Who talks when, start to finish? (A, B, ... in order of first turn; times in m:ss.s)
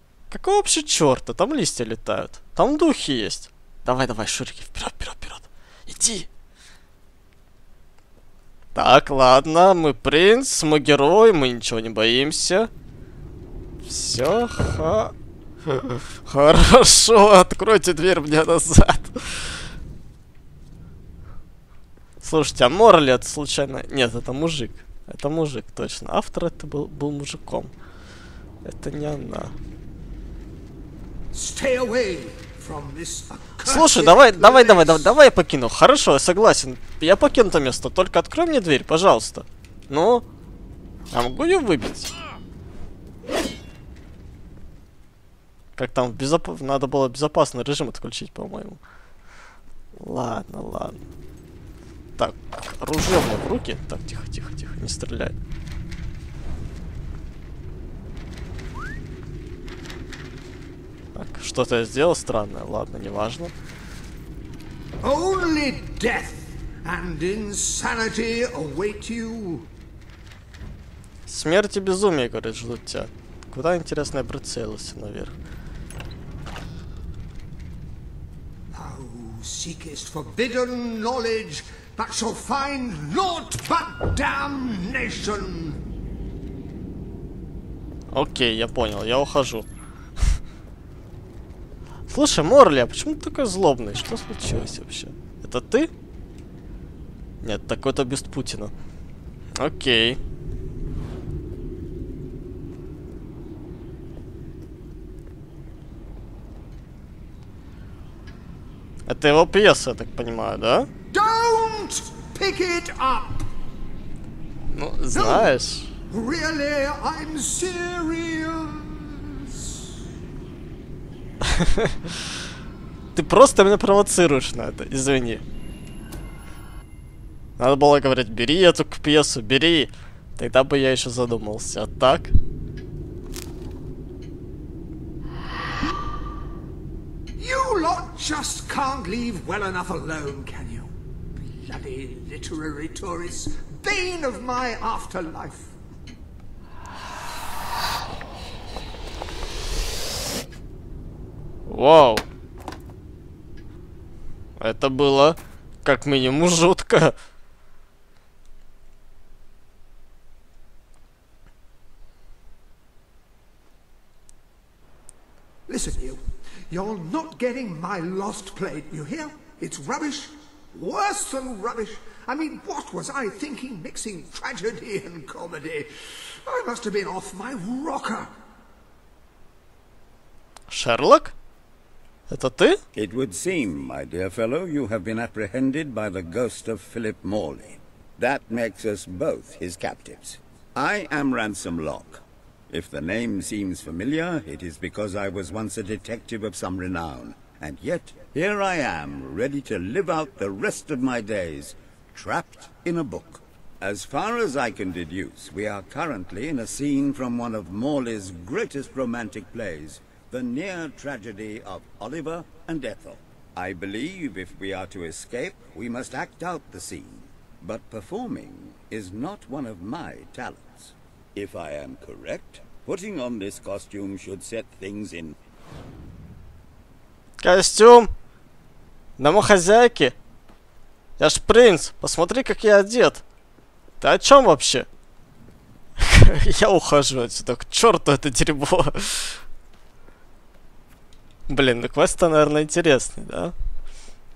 0:00.3-0:06.3 A
0:08.8-0:12.7 A
0:13.8-0:15.1 A
0:15.7-0:19.6 A
0:22.2-0:27.7 A
0:28.6-0:29.5 A
0:31.3-0:35.1 B
0:33.6-0:40.2 A
0:41.1-0:42.1 A
0:45.8-0:48.8 A
0:50.0-0:51.0 A
0:52.2-0:55.4 A
1:01.2-1:03.5 A
1:05.0-1:09.7 B
1:11.3-1:15.3 A
1:18.7-1:25.8 B
1:28.1-1:29.7 A
1:32.1-1:35.9 A
1:37.4-1:38.7 A
1:39.6-1:40.2 A
1:49.1-1:50.9 A
1:51.1-1:53.5 B
1:54.7-1:55.9 A
1:55.1-1:55.5 B
1:56.1-1:59.9 B
2:01.4-2:02.2 A
2:03.2-2:05.4 A
2:07.6-2:12.3 A
2:17.4-2:20.9 B
2:21.4-2:25.8 B
2:31.7-2:32.2 A
2:34.6-2:37.2 A
2:45.7-2:55.9 B
2:56.4-2:58.3 B
3:00.7-3:01.3 A
3:02.3-3:02.8 A
3:03.0-3:45.3 C
3:47.4-3:48.1 A
3:49.2-3:50.2 A
3:51.2-3:53.2 A
3:54.0-3:54.9 A
3:56.0-3:59.4 A
4:01.5-4:03.5 A